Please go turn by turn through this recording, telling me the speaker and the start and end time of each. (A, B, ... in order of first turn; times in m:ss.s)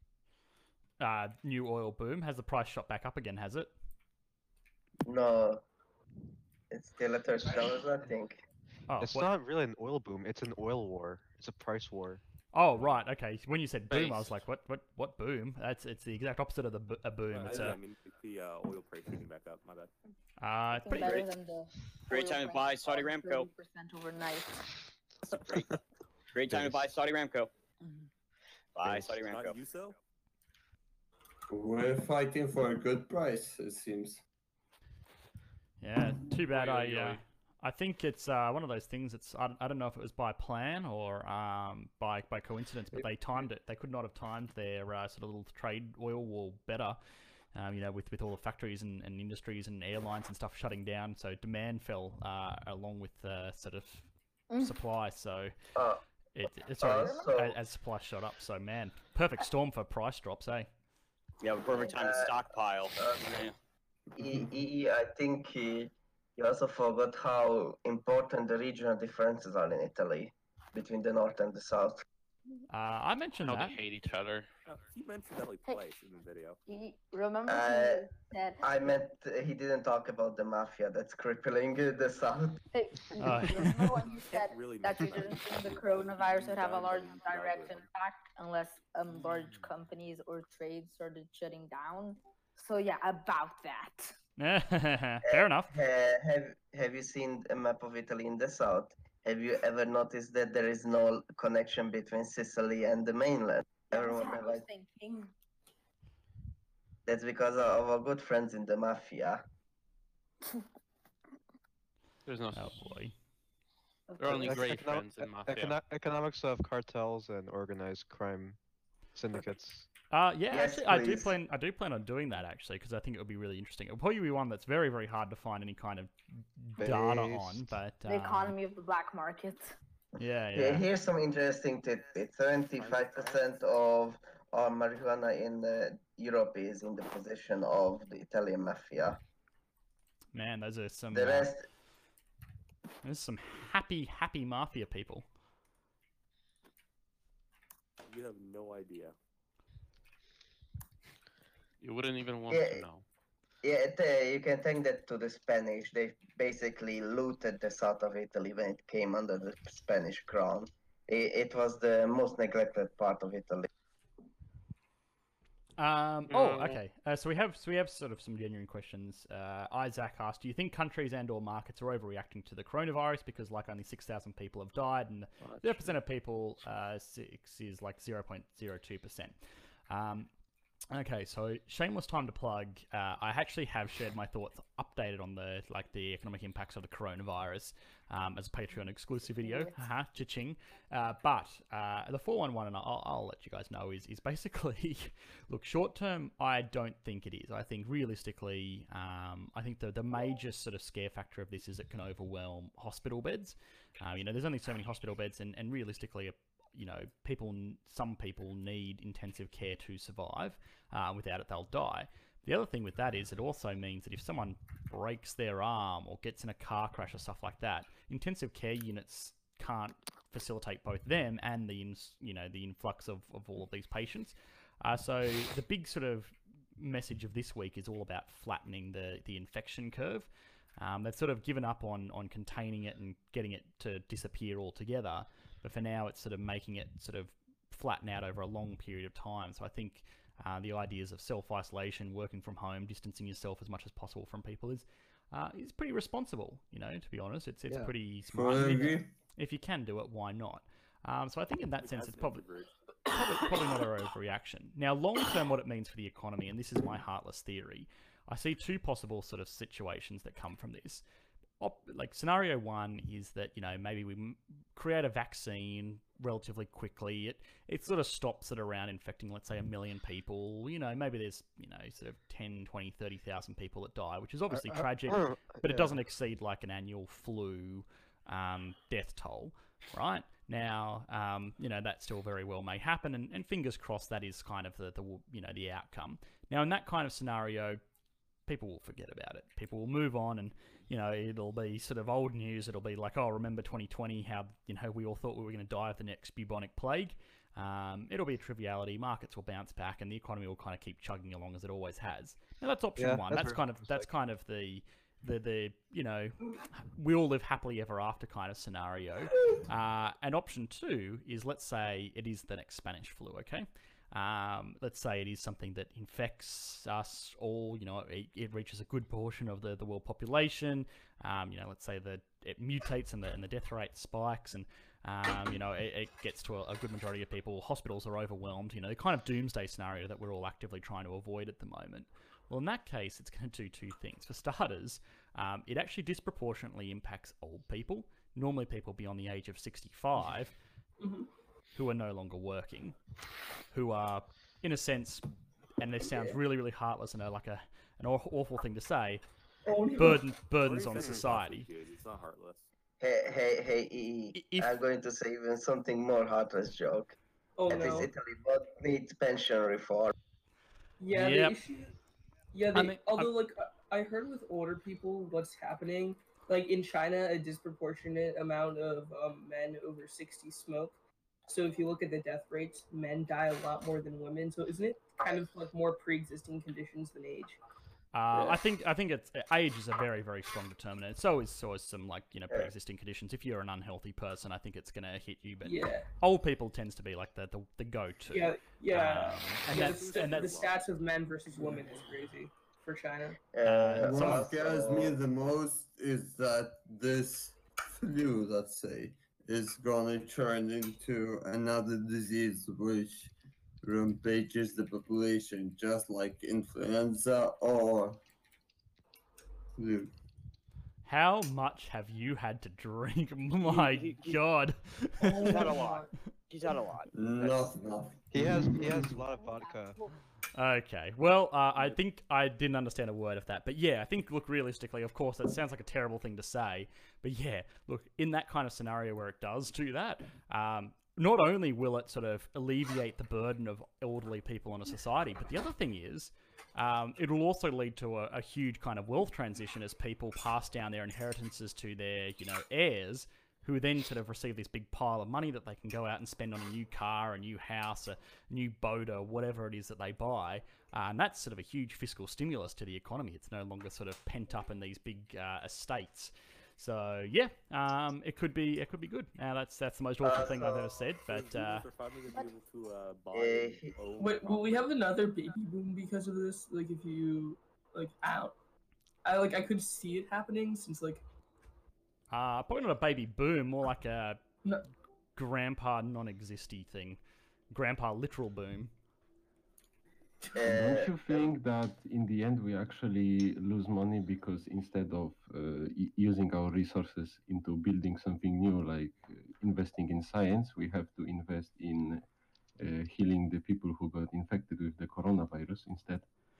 0:01.0-0:03.7 A
0:05.1-0:05.6 B
0:06.7-0:08.4 B
0:08.9-0:09.3 A
0:09.0-0:12.2 C
0:12.5-0:17.8 A
0:13.9-0:14.2 D
0:17.3-0:19.9 E
0:20.4-0:21.2 A
0:20.8-0:24.8 F
0:20.9-0:21.3 G
0:22.1-0:23.5 G
0:26.3-0:27.5 G
0:28.8-0:29.7 G
0:28.9-0:30.0 E
0:31.5-0:34.2 H
0:35.8-0:47.0 A
0:36.5-0:37.2 D
0:47.5-0:55.5 A
0:54.5-0:54.8 F
0:55.8-0:56.0 B
0:56.4-1:00.7 A
0:56.8-0:57.6 B
1:01.4-1:03.5 G
1:01.7-1:02.4 B
1:03.0-1:03.5 B
1:04.2-1:12.0 B
1:12.7-1:13.8 A
1:13.4-1:14.5 D
1:14.7-1:16.6 E
1:16.7-1:18.6 F
1:17.5-1:18.1 B
1:18.6-1:22.6 B
1:22.7-1:34.2 F
1:23.2-1:23.9 A
1:24.0-1:27.9 E
1:34.4-1:35.7 A
1:35.3-1:44.6 B
1:43.9-1:45.3 F
1:47.1-1:49.4 B
1:52.2-1:52.9 D
1:52.5-1:53.2 A
1:54.1-1:54.7 F
1:54.2-1:55.8 D
1:54.2-1:58.6 C
1:59.1-1:59.9 C
2:00.1-2:08.6 A
2:00.5-2:01.4 B
2:06.8-2:07.7 C
2:08.0-2:09.7 F
2:10.2-2:10.9 A
2:10.5-2:19.2 B
2:12.8-2:13.4 D
2:20.3-2:21.5 A
2:21.1-2:21.6 B
2:23.0-2:25.3 A
2:28.1-2:29.2 E
2:31.8-2:33.0 D
2:32.5-2:32.9 B
2:33.6-2:43.7 B
2:45.8-2:59.4 A
2:46.3-2:46.7 D
2:55.4-2:56.0 D
2:59.9-3:00.3 A
3:00.9-4:12.4 A
3:09.4-3:09.8 F
4:07.7-4:09.1 H
4:11.8-4:12.7 E
4:13.1-4:21.0 A
4:21.6-4:47.8 A
4:34.5-4:36.0 C
4:48.5-5:40.5 A
5:03.0-5:04.1 C
5:41.0-5:41.3 I
5:41.8-5:43.0 A
5:43.7-5:45.3 A
5:45.8-5:49.2 A
5:49.6-5:50.3 I
5:50.0-5:51.7 A
5:50.6-5:52.7 E
5:53.0-5:57.2 B
5:54.4-5:54.8 A
5:57.6-5:58.1 I
5:57.7-6:00.1 B
6:01.0-6:01.9 I
6:01.1-6:01.6 A
6:02.5-6:17.6 I
6:02.7-6:03.3 A
6:18.1-6:30.6 A
6:25.6-6:26.1 I
6:28.3-6:33.4 I
6:29.7-6:31.0 E
6:33.5-6:35.2 B
6:33.6-6:34.5 A
6:34.0-6:48.2 H
6:49.8-6:50.1 H
6:51.0-6:55.8 A
6:53.6-6:54.4 G
6:55.2-6:56.1 I
6:55.4-6:57.8 G
6:57.1-6:59.2 H
6:58.3-7:00.0 C
6:58.7-7:00.2 F
7:00.5-7:41.9 A
7:40.2-7:40.9 B
7:41.3-7:44.9 E
7:43.3-7:44.0 B
7:44.2-7:48.6 I
7:49.2-7:51.2 I
7:52.3-7:54.4 A
7:55.4-7:58.9 A
8:00.6-8:01.5 B
8:00.6-8:12.2 J
8:12.8-8:16.3 J